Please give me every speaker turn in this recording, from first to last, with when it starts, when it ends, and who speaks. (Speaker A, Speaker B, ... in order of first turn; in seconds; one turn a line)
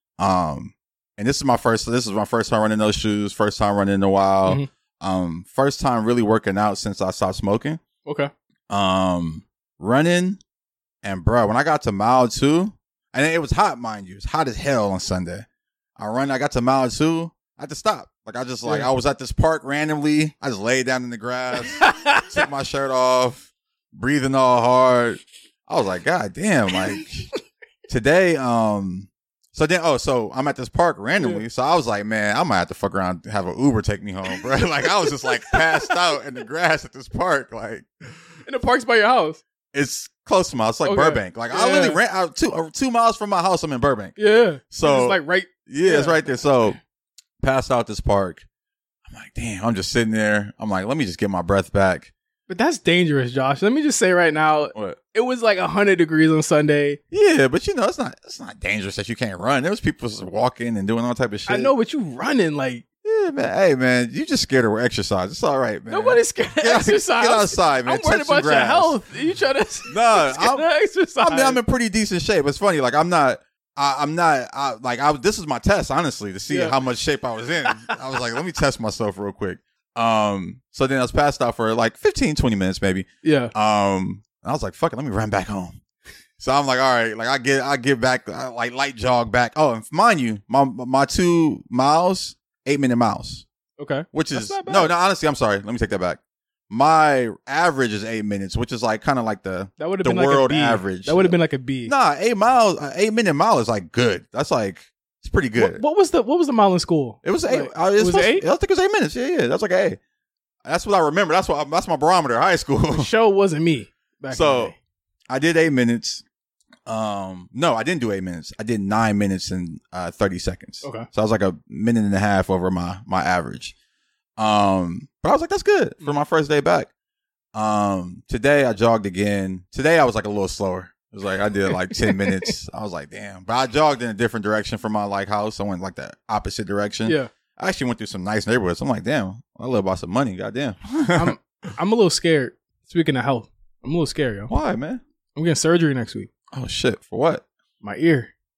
Speaker A: 0.2-7.8
Speaker B: 8.1-8.3
Speaker A: 8.7-10.4
Speaker A: 11.0-15.5
Speaker A: 16.0-27.3
Speaker B: 18.6-18.9
Speaker B: 21.8-22.4
Speaker A: 27.9-38.1
Speaker B: 31.2-31.4
Speaker B: 35.1-35.9
Speaker B: 38.5-39.4
Speaker A: 39.7-44.2
Speaker B: 40.8-42.0
Speaker B: 44.2-46.2
Speaker A: 44.7-46.8
Speaker A: 47.4-48.5
Speaker A: 49.1-52.1
Speaker B: 52.5-57.0
Speaker A: 57.1-61.7
Speaker B: 61.5-62.8
Speaker A: 63.0-69.0
Speaker B: 65.9-71.6
Speaker A: 69.9-70.7
Speaker A: 71.2-85.8
Speaker B: 76.5-76.8
Speaker B: 77.7-78.0
Speaker B: 83.2-83.5
Speaker A: 86.4-93.5
Speaker B: 93.8-94.9
Speaker A: 94.1-96.2
Speaker A: 96.7-105.8
Speaker B: 99.8-101.9
Speaker B: 105.6-108.5
Speaker A: 107.2-110.0
Speaker A: 110.7-113.1
Speaker B: 112.9-114.8
Speaker A: 114.3-114.7
Speaker A: 115.3-116.2
Speaker A: 116.9-123.7
Speaker A: 124.4-126.9
Speaker A: 127.5-141.4
Speaker B: 131.9-132.5
Speaker B: 141.1-144.5
Speaker A: 144.5-145.0
Speaker B: 145.4-146.3
Speaker A: 146.5-147.4
Speaker B: 147.8-148.3